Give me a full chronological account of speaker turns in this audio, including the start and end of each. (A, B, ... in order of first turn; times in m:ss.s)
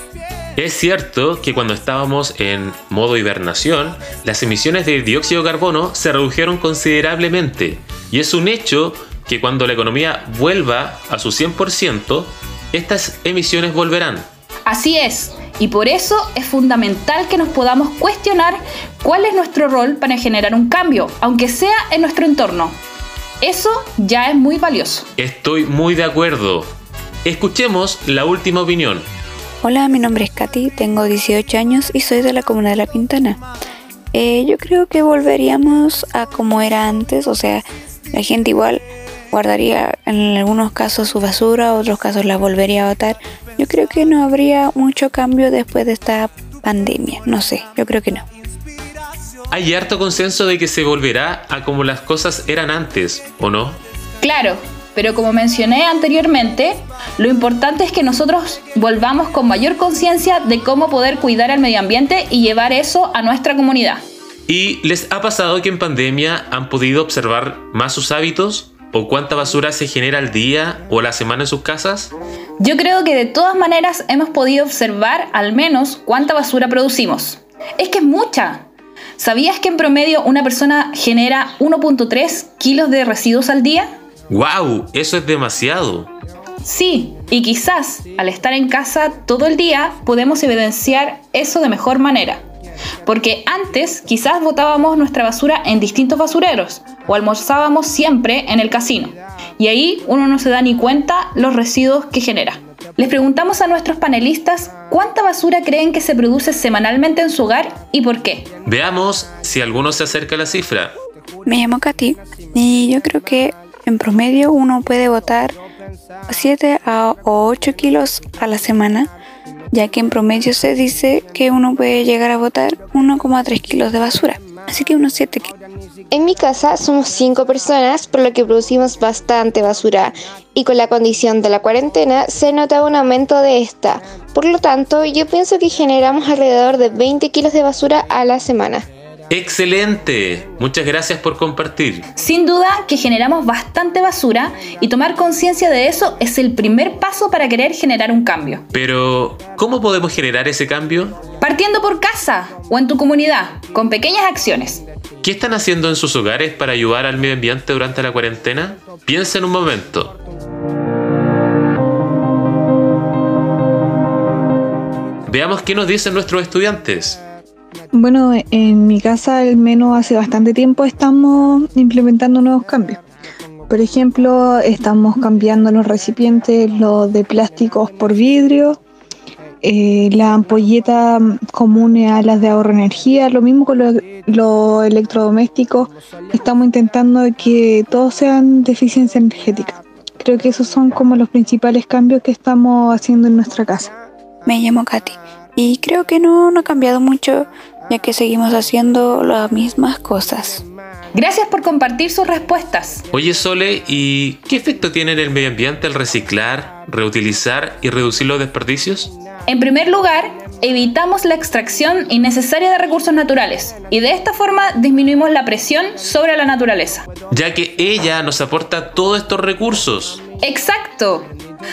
0:00.6-0:14.3 A
0:14.7-0:22.8 B
0:23.4-0:25.1 B
0:25.2-0:26.7 A
0:27.2-0:29.1 A
0:29.6-0:33.4 C
0:34.1-0:48.2 C
0:49.5-0:53.8 A
0:54.2-1:04.0 B
1:04.5-1:12.1 A
1:12.6-1:23.9 B
1:24.3-1:26.1 A
1:26.6-1:32.4 B
1:33.1-1:48.5 B
1:48.7-1:51.0 A
1:51.5-1:55.6 C
1:56.3-1:59.1 C
1:59.7-2:05.5 C
2:06.1-2:18.9 D
2:19.3-2:22.1 A
2:22.2-2:28.6 B
2:28.7-2:31.2 A
2:31.4-2:34.8 B
2:35.2-2:40.2 A
2:45.3-2:47.2 A
2:47.9-2:53.0 E
2:53.7-2:58.8 E
2:59.6-3:13.9 E
3:14.5-3:20.6 C
3:21.2-3:23.0 B
3:23.1-3:29.1 A
3:29.5-3:37.1 B
3:37.3-3:40.2 A
3:40.4-3:41.3 B